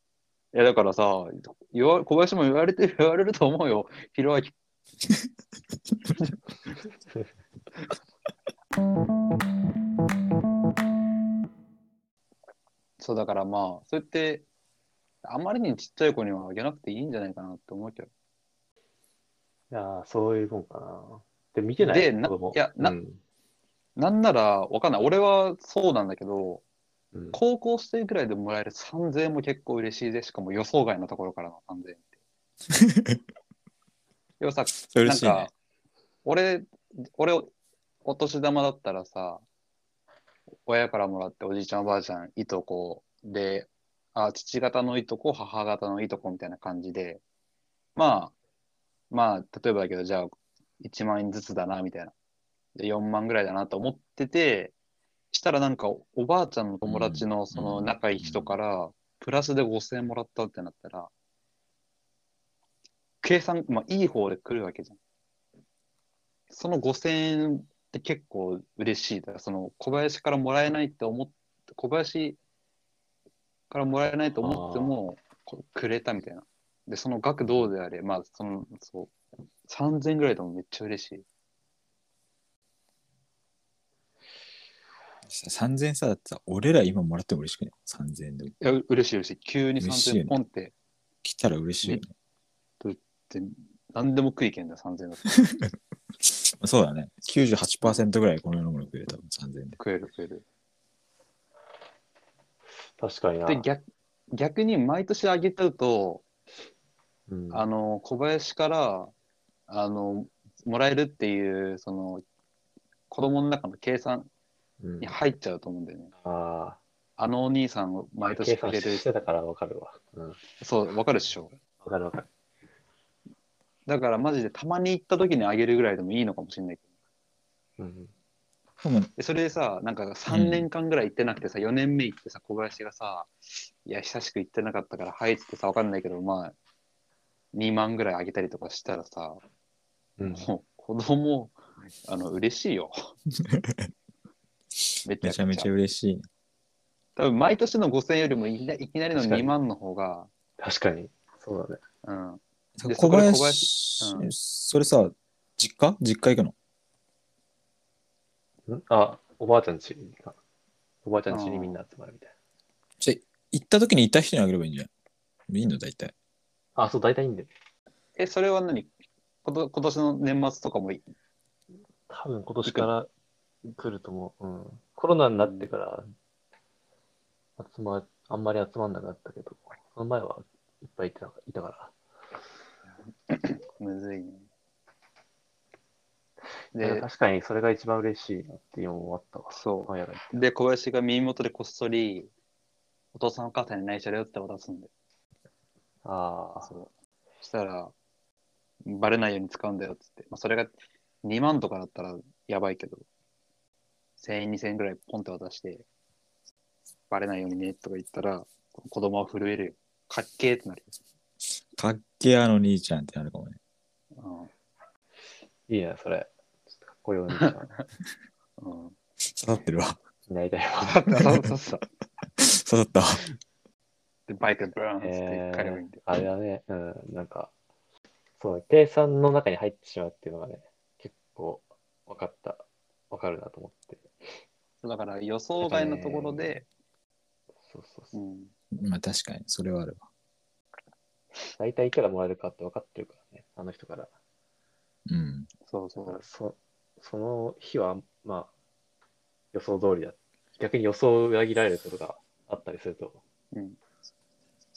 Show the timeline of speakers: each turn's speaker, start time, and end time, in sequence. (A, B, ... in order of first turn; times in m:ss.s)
0:00.5-0:04.5 A
0:13.0-0:14.4 A
0:15.2-0:18.1 A
0:19.7-0:23.2 B
0:21.8-0:23.0 A
0:24.0-0:26.6 A
0:27.1-0:27.4 B
0:27.3-0:32.0 A
0:32.7-0:33.2 C
0:34.4-0:35.5 A
0:34.9-0:35.5 C
0:36.2-0:37.5 A
0:38.0-0:39.4 A
0:40.7-0:47.2 A
0:48.0-0:48.3 A
0:49.1-0:52.1 A
0:52.8-0:54.7 A
0:55.3-1:01.1 A
0:56.8-0:58.6 C
1:03.2-1:05.0 A
1:06.5-1:12.4 A
1:13.7-1:19.1 A
1:14.4-1:15.0 B
1:17.4-1:17.7 B
1:19.7-1:21.2 A
1:25.3-1:28.6 C
1:28.6-1:30.7 A
1:29.8-1:30.4 C
1:31.2-1:32.1 C
1:32.8-1:35.3 A
1:35.4-1:35.7 C
1:36.2-1:39.8 C
1:39.8-1:40.4 A
1:43.0-1:43.6 B
1:43.5-1:46.2 A
1:47.3-1:47.7 B
1:47.5-1:49.1 A
1:49.7-1:52.2 A
1:53.1-1:54.3 A
1:54.8-1:55.2 B
1:55.0-1:56.1 A
1:56.2-1:56.8 B
1:57.2-1:59.1 A
1:58.2-2:00.4 B
2:00.6-2:01.6 A
2:01.8-2:02.3 B
2:03.9-2:06.8 A
2:07.8-2:08.1 B
2:08.8-2:09.1 C
2:09.2-2:13.3 A
2:10.3-2:10.7 C
2:13.8-2:16.6 A
2:17.5-2:19.4 A
2:20.2-2:20.5 B
2:20.3-2:23.1 A
2:23.4-2:23.9 C
2:25.0-2:25.7 A
2:25.2-2:26.3 C
2:27.2-2:30.3 A
2:29.1-2:29.5 B
2:30.6-2:31.8 B
2:32.0-2:34.3 A
2:32.8-2:36.6 C
2:38.7-2:40.4 B
2:41.0-2:42.3 B
2:41.3-2:41.8 A
2:43.0-2:44.9 C
2:45.5-2:46.1 C
2:46.8-2:47.5 B
2:48.2-2:48.9 A
2:49.4-2:51.0 A
2:52.1-2:53.1 B
2:53.6-2:56.1 B
2:55.4-2:55.7 A
2:57.6-3:01.9 B
3:03.3-3:04.5 A
3:06.8-3:07.1 A
3:06.8-3:10.4 B
3:09.5-3:12.3 A
3:13.1-3:14.9 A
3:16.0-3:16.8 B
3:16.6-3:17.9 A
3:18.8-3:23.0 A
3:24.2-3:25.8 A
3:27.1-3:30.9 A
3:31.8-3:33.6 C
3:34.2-3:34.5 A
3:35.7-3:37.7 B
3:38.6-3:39.0 A
3:39.3-3:40.0 C
3:40.3-3:41.1 B
3:40.8-3:41.8 A
3:42.4-3:43.2 C
3:44.3-3:46.0 A
3:45.0-3:47.5 B
3:48.4-3:54.1 B
3:54.8-3:56.7 A
3:55.6-3:56.6 B
3:57.6-3:58.2 B
3:58.1-3:58.5 A
3:58.7-4:00.0 C
4:01.6-4:04.1 B
4:05.1-4:05.5 C
4:05.7-4:06.2 A
4:06.0-4:08.5 B
4:09.5-4:13.2 B